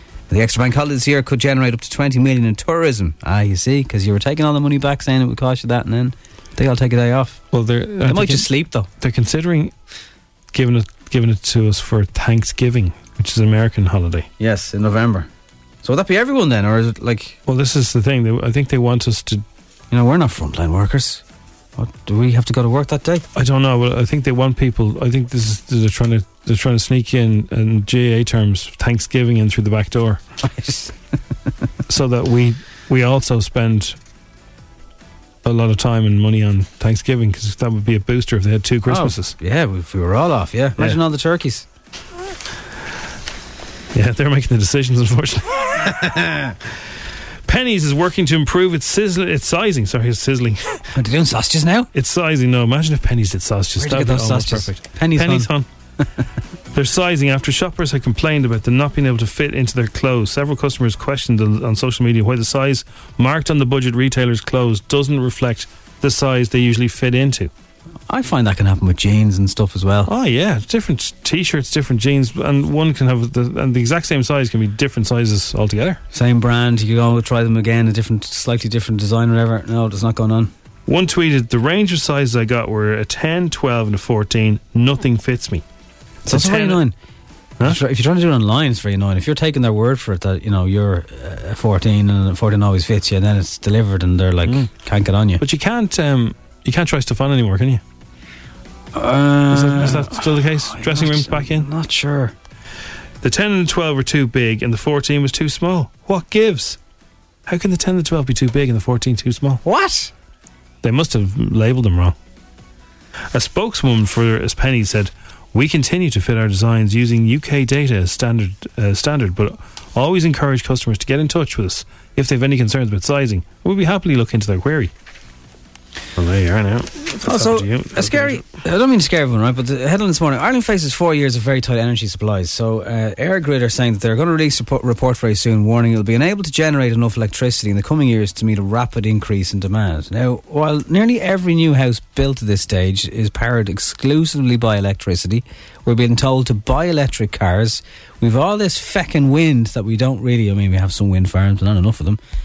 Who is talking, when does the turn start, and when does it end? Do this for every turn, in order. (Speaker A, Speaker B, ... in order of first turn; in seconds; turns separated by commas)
Speaker A: 0.3-7.4, Speaker B: 7.5-9.7, Speaker A: 8.0-8.9, Speaker B: 10.5-14.3, Speaker A: 14.4-15.3, Speaker A: 15.8-17.4, Speaker B: 17.4-19.4, Speaker A: 19.9-21.2, Speaker A: 21.8-23.3, Speaker B: 23.3-30.2, Speaker A: 30.4-30.9, Speaker B: 31.9-34.0, Speaker B: 35.4-39.4, Speaker A: 38.9-41.6, Speaker B: 43.9-46.0, Speaker A: 45.9-46.5, Speaker B: 47.5-50.8, Speaker A: 50.9-51.9, Speaker B: 51.9-55.7, Speaker A: 53.8-55.5, Speaker B: 56.7-67.5, Speaker A: 68.1-70.1, Speaker B: 70.1-76.0, Speaker A: 76.1-80.5, Speaker B: 80.9-85.6, Speaker A: 86.2-86.9, Speaker B: 86.3-86.8, Speaker A: 87.6-95.4, Speaker B: 95.4-97.8, Speaker A: 98.9-102.3, Speaker B: 99.5-101.7, Speaker B: 103.2-106.8, Speaker B: 107.5-109.6, Speaker A: 109.6-110.1, Speaker B: 110.8-112.2, Speaker B: 113.3-124.9, Speaker B: 126.2-128.4, Speaker A: 127.2-152.2